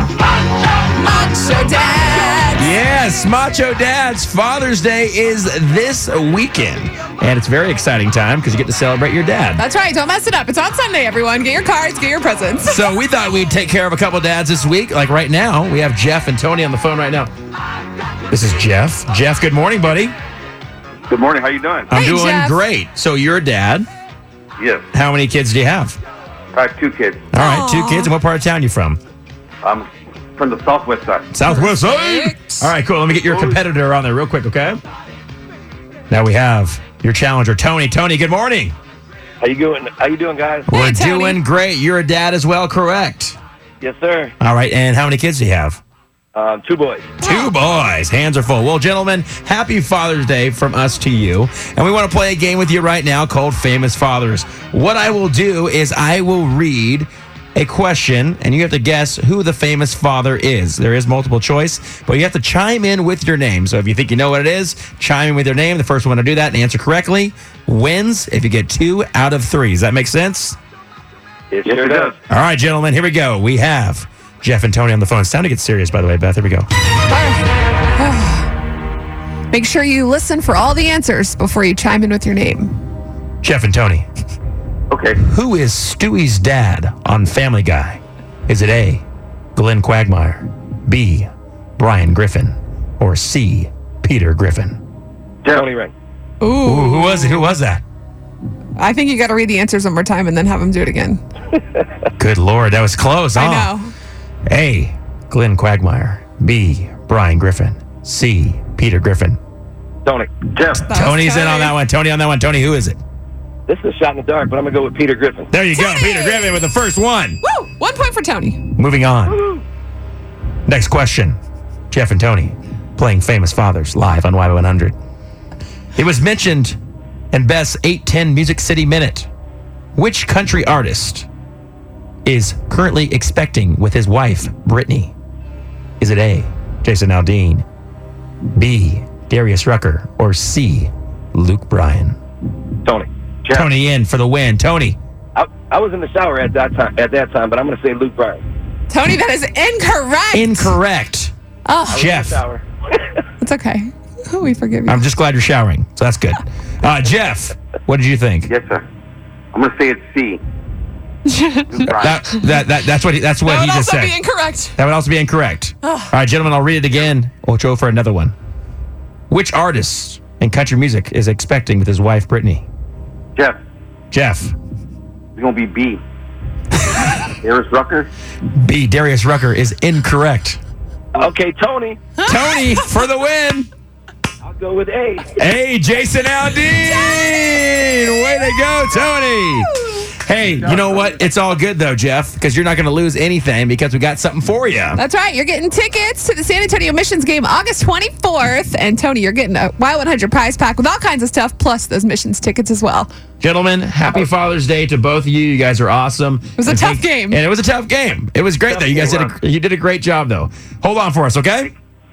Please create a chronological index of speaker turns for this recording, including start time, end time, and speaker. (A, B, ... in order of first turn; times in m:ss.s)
0:00.9-0:02.8 A
0:02.6-0:09.6 B
0:09.6-0:12.9 A
0:12.6-0:17.3 B
0:18.3-0:20.1 B
0:21.1-0:21.9 C
0:21.9-0:23.9 B
0:21.9-0:22.6 A
0:24.6-0:24.8 C
0:24.9-0:26.0 B
0:26.5-0:27.2 C
0:27.3-0:29.0 B
0:27.4-0:28.1 A
0:29.6-0:31.3 C
0:31.3-0:34.8 B
0:31.4-0:32.7 A
0:36.1-0:38.7 B
0:39.4-0:40.7 D
0:40.7-0:43.4 B
0:40.7-0:41.4 A
0:43.8-0:44.3 D
0:44.4-0:45.8 B
0:46.3-0:47.1 D
0:47.2-1:10.6 B
0:47.2-0:47.5 A
1:11.5-1:12.1 D
1:11.6-1:12.1 C
1:12.3-1:16.7 B
1:17.1-1:17.4 A
1:18.0-1:18.5 A
1:19.5-1:22.7 A
1:23.4-1:24.0 B
1:24.9-1:25.2 C
1:25.2-1:29.0 B
1:29.6-1:34.8 B
1:35.4-1:35.9 D
1:36.4-1:37.5 A
1:36.6-1:37.8 B
1:38.8-1:41.2 A
1:42.2-1:43.7 B
1:43.3-1:43.9 A
1:44.5-1:49.4 B
1:50.0-1:50.5 D
1:50.6-1:50.9 C
1:50.8-1:51.8 A
1:50.9-1:53.0 B
1:53.7-1:55.5 D
1:55.5-1:57.4 B
1:55.7-1:56.6 A
1:57.4-1:58.6 A
1:58.8-1:59.4 B
1:59.3-1:59.6 D
2:00.7-2:01.4 B
2:01.9-2:05.0 B
2:05.9-2:06.8 B
2:07.3-2:09.3 B
2:09.9-2:11.3 B
2:12.2-2:15.1 B
2:16.0-2:17.6 B
2:18.6-2:22.2 B
2:22.8-2:23.7 D
2:23.5-2:25.0 B
2:25.4-2:28.4 D
2:28.9-2:30.8 A
2:30.3-2:31.3 B
2:31.6-2:32.1 A
2:31.9-2:32.6 D
2:31.9-2:32.4 B
2:33.4-2:35.0 A
2:34.9-2:38.5 B
2:38.5-2:38.8 C
2:39.5-2:40.4 C
2:41.3-2:42.6 A
2:41.7-2:42.2 C
2:41.9-2:44.2 B
2:43.4-2:44.8 A
2:44.8-2:48.3 B
2:45.8-2:46.1 A
2:49.3-2:52.6 B
2:54.1-2:54.5 B
2:55.4-2:56.0 C
2:57.3-2:58.1 C
2:58.6-3:00.6 B
3:01.1-3:02.0 D
3:02.2-3:03.7 B
3:02.3-3:02.9 A
3:04.4-3:05.4 D
3:05.3-3:15.0 B
3:06.7-3:07.6 A
3:09.4-3:10.0 A
3:14.9-3:23.1 A
3:23.4-3:31.7 B
3:26.6-3:27.4 A
3:28.7-3:29.3 D